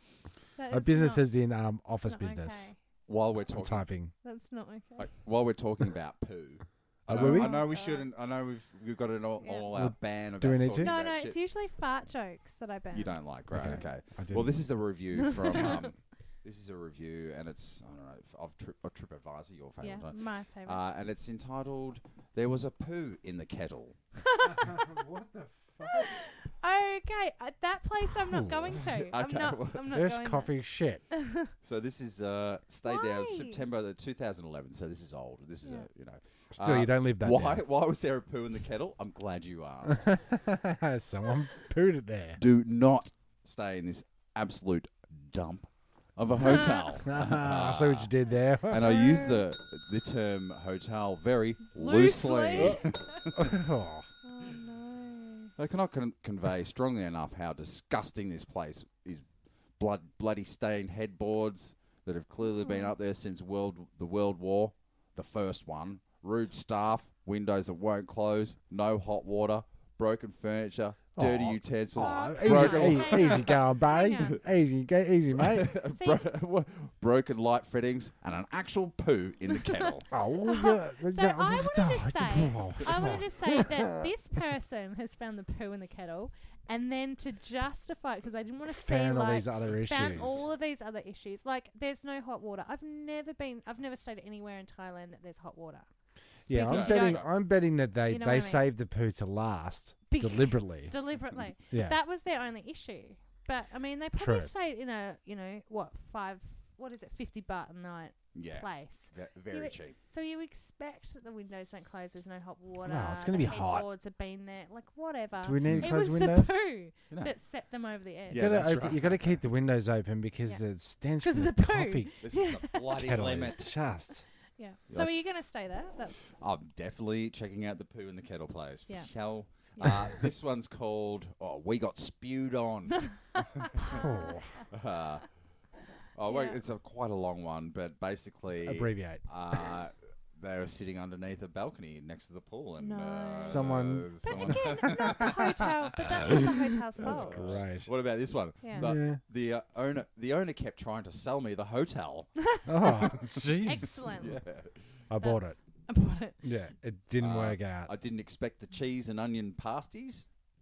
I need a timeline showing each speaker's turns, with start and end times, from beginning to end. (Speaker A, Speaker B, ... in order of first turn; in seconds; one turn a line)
Speaker A: 0.6-1.3
Speaker B: 0.7-2.7
Speaker A: 1.9-2.8
Speaker C: 3.1-3.9
Speaker B: 3.5-4.1
Speaker A: 4.2-5.1
Speaker C: 5.0-11.4
Speaker B: 7.1-7.7
Speaker A: 7.1-8.1
Speaker A: 9.4-9.7
Speaker B: 9.7-10.9
Speaker A: 10.8-13.9
Speaker C: 12.9-24.0
Speaker B: 13.5-14.6
Speaker A: 15.2-15.9
Speaker A: 19.8-20.8
Speaker A: 24.2-24.9
Speaker B: 24.5-26.1
Speaker A: 25.9-30.5
Speaker B: 28.2-28.8
Speaker C: 28.9-30.0
Speaker B: 29.9-31.0
Speaker A: 31.1-31.5
Speaker C: 31.6-40.2
Speaker A: 32.9-33.6
Speaker B: 36.5-37.6
Speaker B: 40.1-42.4
Speaker C: 42.4-48.1
Speaker B: 46.6-49.0
Speaker C: 48.7-53.6
Speaker A: 48.8-49.4
Speaker A: 51.8-53.0
Speaker B: 52.6-52.8
Speaker B: 53.4-54.1
Speaker A: 54.2-55.5
Speaker C: 55.6-59.2
Speaker C: 59.8-73.7
Speaker A: 62.4-62.9
Speaker B: 71.2-75.7
Speaker A: 72.0-74.4
Speaker C: 75.4-80.1
Speaker A: 75.9-76.3
Speaker A: 79.6-79.9
Speaker B: 80.1-84.1
Speaker A: 80.5-95.9
Speaker B: 88.7-90.4
Speaker B: 96.5-101.0
Speaker A: 96.5-97.3
Speaker C: 96.7-97.3
Speaker A: 98.1-98.7
Speaker A: 100.1-118.5
Speaker B: 101.7-102.0
Speaker B: 104.2-104.5
Speaker C: 108.3-110.0
Speaker B: 112.8-113.9
Speaker B: 115.4-116.5
Speaker C: 115.6-115.9
Speaker C: 118.3-119.4
Speaker B: 118.3-122.1
Speaker A: 121.2-123.7
Speaker C: 122.2-123.7
Speaker B: 122.9-124.2
Speaker A: 124.6-126.4
Speaker C: 126.4-133.7
Speaker A: 133.1-134.6
Speaker B: 133.8-134.5
Speaker C: 134.7-135.3
Speaker C: 136.2-146.4
Speaker A: 136.3-136.6
Speaker B: 138.6-139.2
Speaker A: 142.8-147.6
Speaker B: 143.4-145.4
Speaker B: 146.3-147.9
Speaker C: 147.0-153.3
Speaker A: 148.6-148.9
Speaker B: 148.8-149.2
Speaker A: 152.5-152.9
Speaker B: 152.7-154.1
Speaker A: 153.6-154.4
Speaker C: 154.2-155.0
Speaker B: 155.1-155.6
Speaker A: 155.2-156.4
Speaker B: 156.4-157.9
Speaker C: 157.2-160.3